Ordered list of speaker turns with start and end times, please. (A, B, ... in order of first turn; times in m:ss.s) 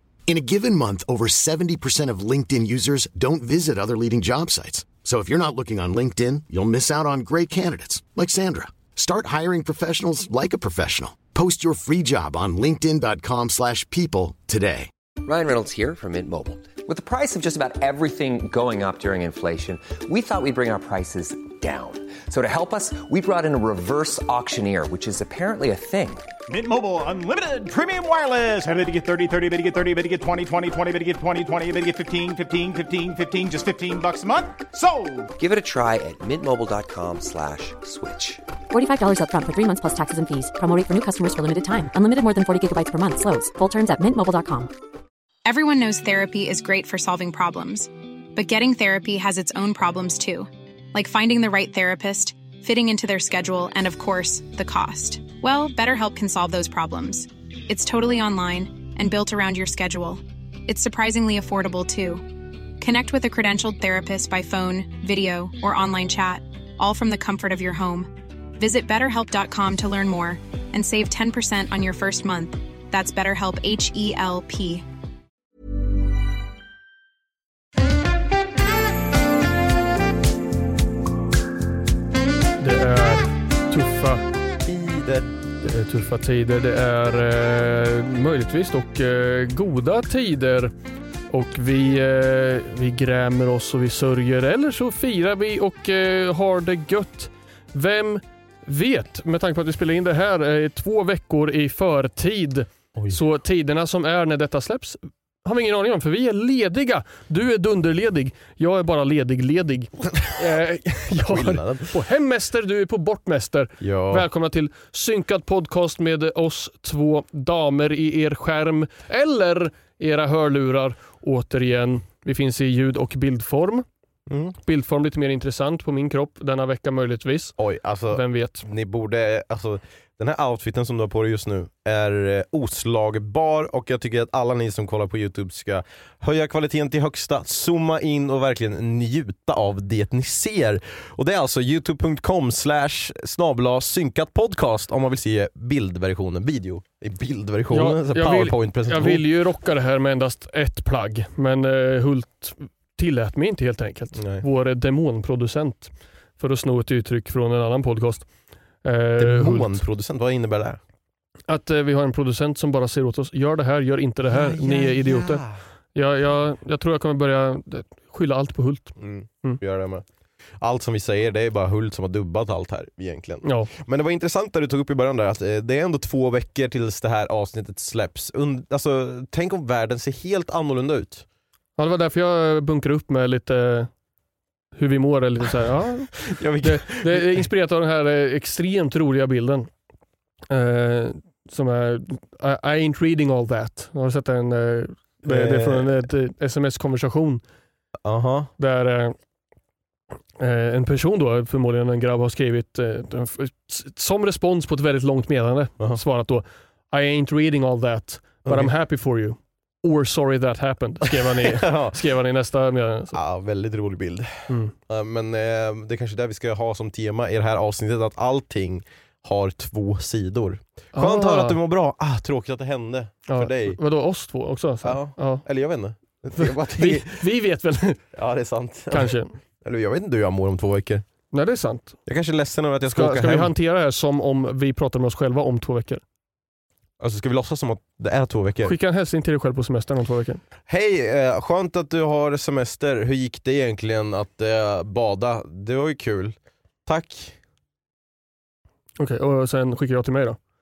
0:00.3-0:14.9 A
0:15.2-0:26.4 B
0:26.5-0:35.3 C
0:35.4-0:38.4 B
0:38.7-0:44.7 D
0:45.4-1:14.8 E
1:22.6-1:24.2 F
1:24.6-1:25.3 G
1:25.6-1:30.7 F
1:31.3-2:03.8 F
1:50.1-1:50.5 G
1:51.1-1:51.9 G
1:53.8-1:54.3 G
2:04.3-2:04.6 G
2:04.6-2:07.6 F
2:07.6-2:29.2 G
2:08.1-2:08.6 F
2:27.7-2:38.3 F
2:34.2-2:34.4 G
2:38.8-2:39.8 F
2:39.2-2:40.8 G
2:41.5-2:45.4 F
2:44.3-2:45.6 G
2:45.9-2:49.6 F
2:49.0-2:50.0 G
2:50.6-3:01.2 G
2:53.4-2:53.7 F
3:01.8-3:03.9 F
3:04.7-3:09.7 F
3:06.2-3:07.5 G
3:10.5-3:17.4 F
3:15.2-3:16.0 G
3:18.0-3:18.5 G
3:18.6-3:19.1 F
3:20.4-3:33.2 F
3:28.4-3:28.7 G
3:31.1-3:32.0 G
3:33.1-3:43.8 G
3:34.5-3:34.7 F
3:40.9-3:41.6 F
3:43.3-3:45.4 F
3:44.8-3:47.2 G
3:46.3-3:48.0 F
3:48.1-3:51.0 G
3:48.9-3:49.4 F
3:51.3-3:52.0 F
3:52.0-3:53.5 G
3:52.9-3:56.0 F
3:57.0-3:58.7 G
3:58.6-4:00.4 F
4:00.7-4:07.4 G
4:09.0-4:10.4 F